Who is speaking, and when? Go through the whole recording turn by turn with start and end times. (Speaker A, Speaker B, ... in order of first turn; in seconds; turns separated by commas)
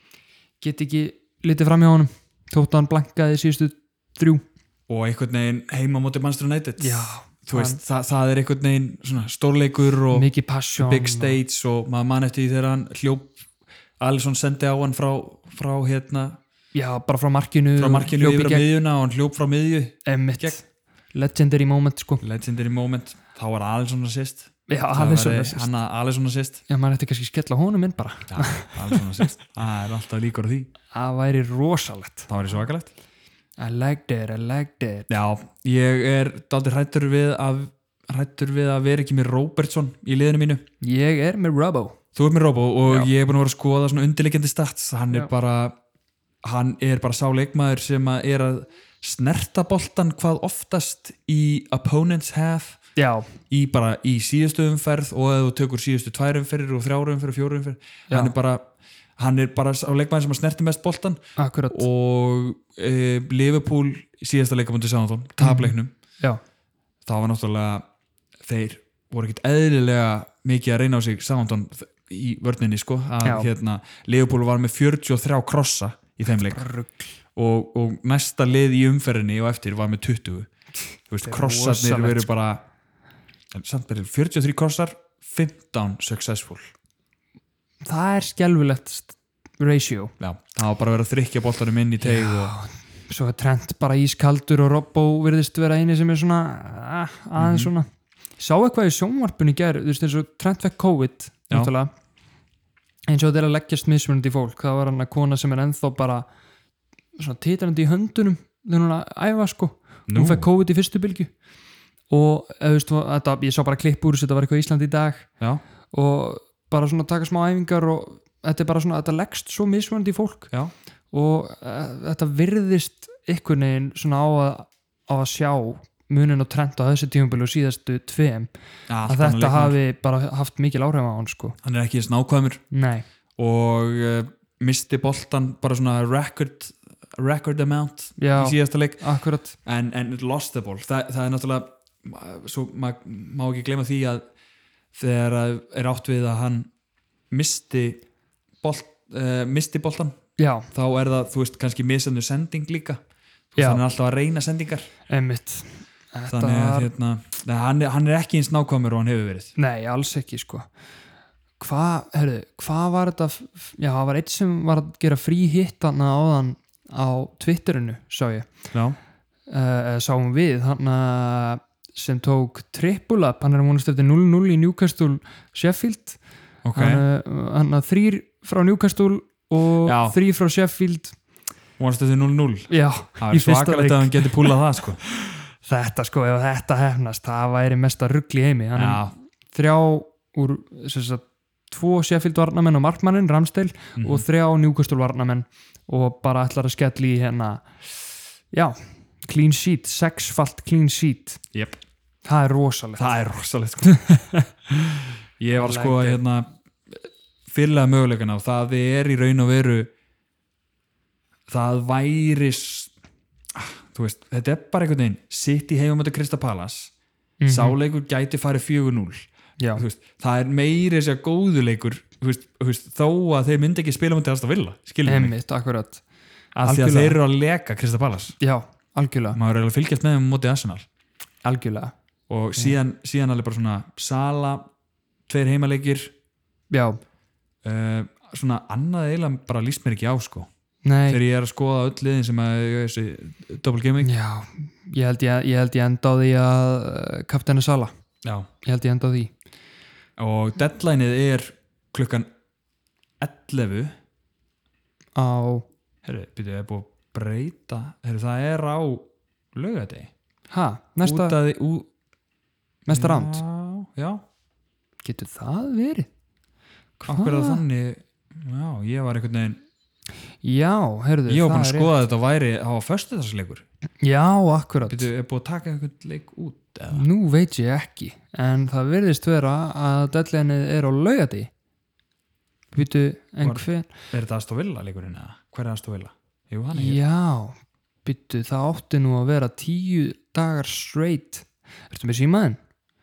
Speaker A: 0.6-4.4, Speaker B: 4.9-13.4, Speaker A: 6.8-7.8, Speaker A: 10.1-11.4, Speaker B: 14.0-16.4, Speaker A: 16.7-18.7, Speaker B: 17.8-20.6, Speaker A: 20.1-22.2, Speaker B: 22.2-26.6, Speaker A: 24.7-25.7, Speaker A: 26.7-29.2, Speaker B: 28.3-30.7, Speaker A: 30.9-32.3, Speaker B: 32.3-32.9, Speaker A: 33.6-35.1, Speaker B: 35.1-40.6, Speaker A: 40.8-42.0, Speaker B: 42.1-45.8, Speaker B: 46.4-52.8, Speaker A: 53.0-53.3, Speaker B: 53.5-58.6, Speaker B: 59.2-65.9, Speaker A: 61.4-61.8, Speaker A: 65.4-66.4, Speaker B: 67.0-67.8, Speaker B: 68.5-76.7, Speaker A: 73.2-73.5, Speaker A: 76.5-77.0, Speaker B: 77.4-80.5, Speaker B: 81.1-82.6, Speaker A: 81.2-82.3, Speaker B: 83.5-86.7, Speaker A: 87.8-90.1, Speaker B: 90.2-92.5, Speaker A: 92.0-97.9, Speaker B: 97.4-97.7, Speaker A: 98.4-101.9, Speaker A: 103.1-106.3, Speaker A: 107.2-111.3, Speaker B: 110.1-110.5, Speaker A: 112.1-115.3, Speaker A: 115.9-120.5, Speaker A: 121.1-128.5, Speaker B: 128.9-129.8, Speaker A: 129.1-131.6, Speaker B: 131.6-132.6, Speaker A: 132.7-133.1, Speaker B: 133.4-139.0, Speaker A: 138.2-139.6, Speaker B: 139.6-144.2, Speaker B: 144.9-146.7, Speaker B: 147.3-148.0, Speaker B: 148.6-150.2, Speaker A: 150.4-150.7, Speaker B: 150.7-153.0, Speaker B: 153.5-154.9, Speaker A: 153.6-153.8, Speaker A: 155.1-156.9, Speaker B: 156.3-159.5, Speaker A: 159.6-160.7, Speaker A: 161.6-168.5, Speaker A: 169.5-176.2, Speaker B: 176.7-177.0, Speaker A: 176.8-181.2, Speaker B: 179.8-180.2, Speaker B: 181.8-185.0, Speaker A: 182.7-197.7, Speaker B: 188.8-189.1, Speaker B: 194.0-194.2, Speaker A: 198.5-201.4, Speaker B: 201.5-201.8, Speaker A: 202.2-203.1, Speaker B: 203.0-204.0, Speaker A: 203.9-204.4, Speaker B: 204.8-209.9, Speaker A: 205.5-206.2, Speaker B: 211.5-212.9, Speaker B: 213.5-216.9, Speaker A: 217.4-217.8, Speaker B: 217.5-225.3, Speaker A: 219.6-219.8, Speaker A: 225.1-226.0, Speaker A: 226.6-227.2, Speaker B: 226.6-228.3, Speaker A: 228.4-229.4, Speaker B: 229.3-230.9, Speaker A: 231.4-231.9, Speaker B: 232.3-234.7, Speaker B: 235.3-236.1, Speaker A: 236.7-237.0, Speaker B: 237.6-240.5, Speaker A: 240.8-241.2, Speaker B: 241.1-244.1, Speaker A: 244.0-247.9, Speaker B: 248.2-248.5, Speaker A: 248.6-249.3, Speaker B: 250.2-252.3, Speaker B: 253.2-253.9, Speaker A: 255.2-255.7, Speaker B: 256.0-260.1, Speaker A: 260.5-261.4, Speaker B: 261.0-261.9, Speaker A: 262.9-263.4, Speaker B: 262.9-264.2, Speaker A: 265.0-266.1, Speaker B: 267.0-269.6, Speaker A: 267.1-267.6, Speaker A: 270.4-271.9, Speaker B: 271.3-273.6, Speaker A: 274.0-275.1, Speaker B: 274.9-277.1, Speaker A: 276.9-281.5, Speaker A: 282.7-283.9, Speaker B: 283.4-287.0, Speaker A: 286.7-292.6